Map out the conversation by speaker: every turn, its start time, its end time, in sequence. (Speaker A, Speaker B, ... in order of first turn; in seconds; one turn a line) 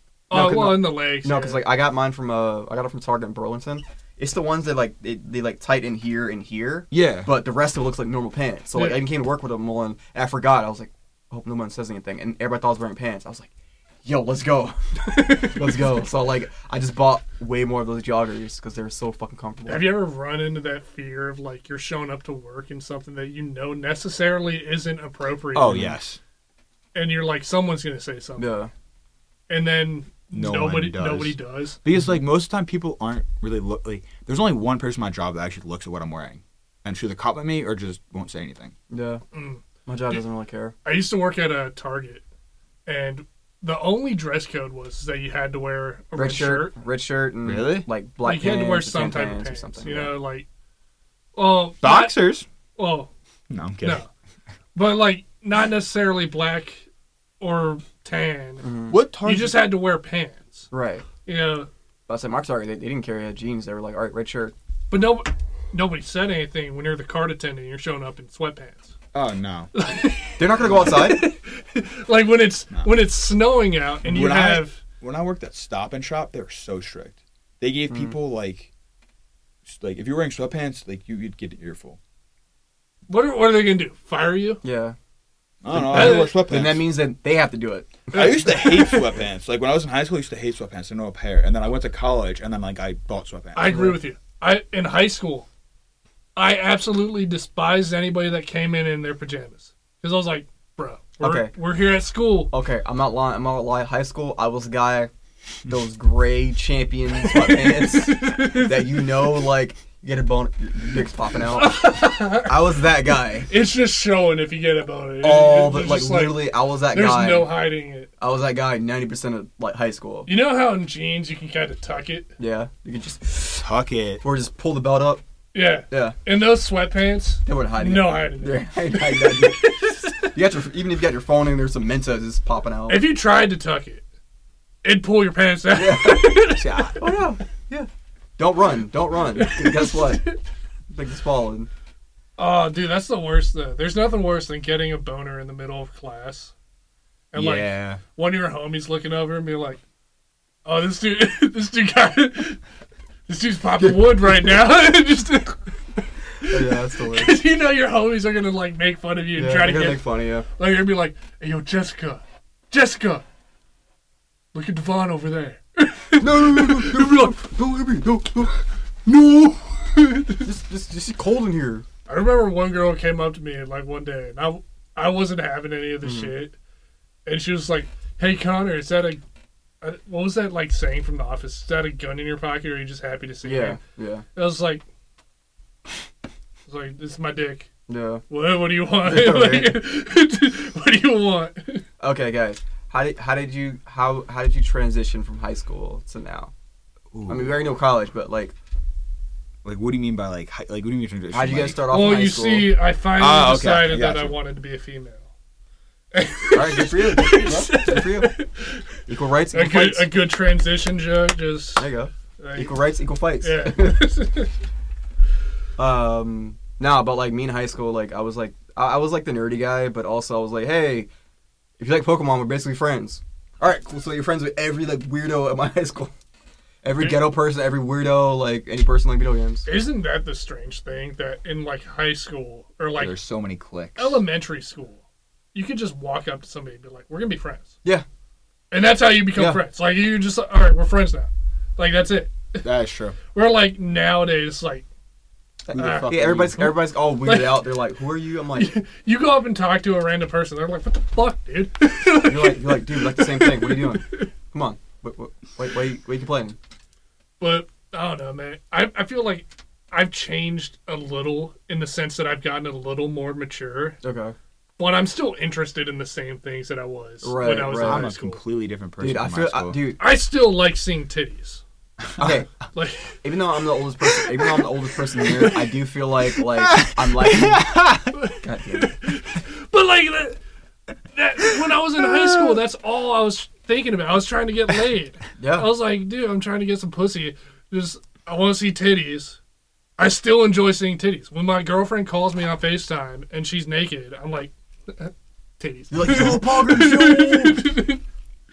Speaker A: 0.3-1.6
Speaker B: 0.3-13.5
Speaker C: 6.9-7.3
Speaker A: 8.8-9.0
Speaker B: 14.1-19.9
Speaker A: 15.0-15.9
Speaker A: 19.7-25.9
Speaker C: 25.5-26.2
Speaker A: 26.9-28.5
Speaker B: 28.4-28.7
Speaker A: 29.5-31.8
Speaker C: 30.3-38.7
Speaker B: 38.9-39.2
Speaker A: 39.3-40.2
Speaker B: 39.9-40.8
Speaker A: 40.9-42.2
Speaker A: 42.9-46.7
Speaker B: 46.1-50.1
Speaker C: 47.4-47.9
Speaker A: 48.2-50.5
Speaker A: 51.4-52.2
Speaker C: 51.8-52.5
Speaker A: 52.8-53.1
Speaker C: 53.5-54.0
Speaker A: 53.8-54.1
Speaker A: 54.8-56.9
Speaker A: 57.4-58.7
Speaker B: 58.6-59.0
Speaker C: 58.9-59.6
Speaker A: 59.2-60.7
Speaker B: 60.7-61.1
Speaker A: 61.2-61.7
Speaker B: 62.1-64.5
Speaker A: 64.9-68.9
Speaker C: 69.1-69.7
Speaker A: 69.7-74.8
Speaker B: 70.4-71.2
Speaker C: 72.7-73.0
Speaker C: 74.0-78.7
Speaker B: 77.9-78.2
Speaker C: 79.7-82.0
Speaker A: 83.1-84.6
Speaker B: 84.6-85.0
Speaker C: 85.6-86.8
Speaker B: 85.7-88.5
Speaker A: 85.9-86.4
Speaker A: 88.1-89.2
Speaker C: 88.1-93.8
Speaker A: 93.5-95.5
Speaker B: 93.7-94.0
Speaker A: 96.4-102.5
Speaker B: 101.2-101.5
Speaker B: 102.5-105.1
Speaker B: 105.7-113.5
Speaker A: 107.2-109.5
Speaker A: 111.5-112.8
Speaker A: 113.5-118.1
Speaker B: 115.2-117.5
Speaker B: 118.2-120.3
Speaker A: 120.3-122.3
Speaker B: 122.4-123.6
Speaker C: 123.5-124.2
Speaker B: 124.2-125.2
Speaker A: 125.5-130.3
Speaker B: 125.9-126.2
Speaker B: 127.5-133.1
Speaker A: 132.9-134.0
Speaker A: 134.8-137.0
Speaker B: 135.7-136.4
Speaker C: 136.6-137.0
Speaker B: 137.0-140.3
Speaker A: 139.4-140.4
Speaker B: 140.9-141.7
Speaker A: 142.4-146.5
Speaker A: 147.3-149.8
Speaker C: 147.3-148.0
Speaker A: 150.7-152.6
Speaker A: 153.3-160.0
Speaker B: 156.4-157.4
Speaker B: 159.3-160.5
Speaker A: 160.6-163.2
Speaker A: 164.5-167.4
Speaker B: 166.2-171.9
Speaker A: 170.0-170.5
Speaker A: 172.1-176.6
Speaker B: 176.0-176.3
Speaker A: 177.3-179.2
Speaker A: 179.8-183.8
Speaker B: 183.4-184.2
Speaker A: 184.3-184.8
Speaker A: 186.7-187.7
Speaker B: 187.9-188.2
Speaker A: 188.3-191.8
Speaker B: 189.0-189.8
Speaker B: 192.0-196.5
Speaker C: 197.1-197.6
Speaker B: 197.3-198.6
Speaker C: 199.6-201.8
Speaker B: 201.3-202.8
Speaker A: 201.9-205.3
Speaker C: 203.2-204.4
Speaker A: 206.1-208.9
Speaker B: 206.5-208.4
Speaker B: 209.1-210.1
Speaker A: 209.5-212.8
Speaker B: 211.8-214.1
Speaker A: 213.4-214.5
Speaker B: 215.8-221.1
Speaker B: 221.8-226.1
Speaker B: 226.8-229.7
Speaker A: 229.7-233.2
Speaker C: 233.0-234.2
Speaker A: 234.0-235.0
Speaker A: 235.5-237.7
Speaker A: 238.7-242.6
Speaker B: 239.3-239.6
Speaker C: 242.6-243.2
Speaker A: 243.3-244.8
Speaker B: 245.7-248.7
Speaker C: 245.8-246.7
Speaker A: 245.8-247.7
Speaker A: 248.6-254.3
Speaker B: 252.2-256.6
Speaker A: 257.4-264.0
Speaker B: 264.0-264.4
Speaker A: 264.8-268.4
Speaker B: 267.2-268.1
Speaker C: 267.8-269.8
Speaker B: 269.0-270.0
Speaker A: 270.0-271.6
Speaker B: 272.2-272.5
Speaker A: 272.7-273.2
Speaker B: 273.2-277.7
Speaker C: 276.4-278.1
Speaker A: 278.1-280.4
Speaker B: 278.4-279.0
Speaker A: 281.1-289.4
Speaker C: 282.2-282.6
Speaker B: 285.4-285.7
Speaker A: 290.0-298.0
Speaker B: 295.9-297.7